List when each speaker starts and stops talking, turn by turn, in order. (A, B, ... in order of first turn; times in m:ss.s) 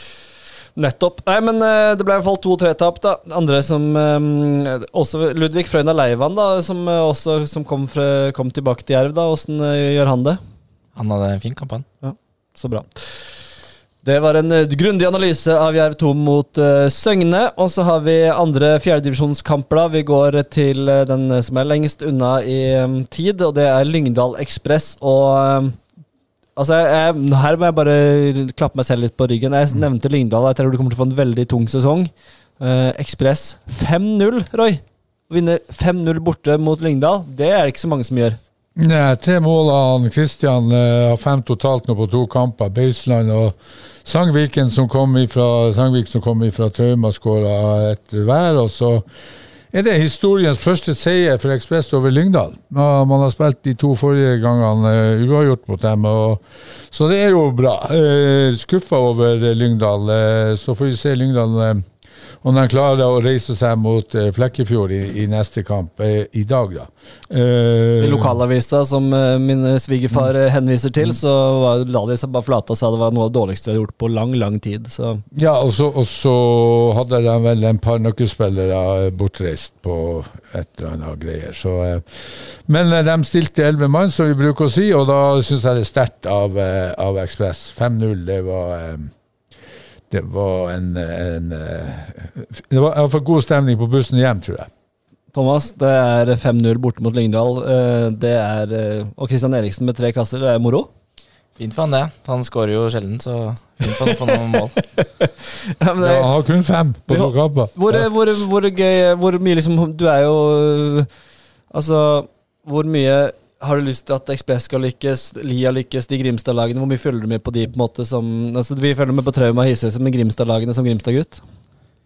0:00.8-0:10.4 A
0:11.0-0:11.9 B
0:12.0-0:12.9 A
0:14.0-0:25.8 A
0:26.6-0:38.4 A
0:38.8-0:49.0 C
0:49.7-1:01.9 C
1:02.4-1:08.4 C
1:08.0-1:15.2 A
1:15.3-1:29.1 C
1:30.1-1:34.7 C
1:35.3-1:40.9 A
1:41.6-1:44.8 B
1:45.0-1:46.3 A
1:46.0-1:48.1 C
1:47.1-1:51.1 A
1:51.7-2:01.4 A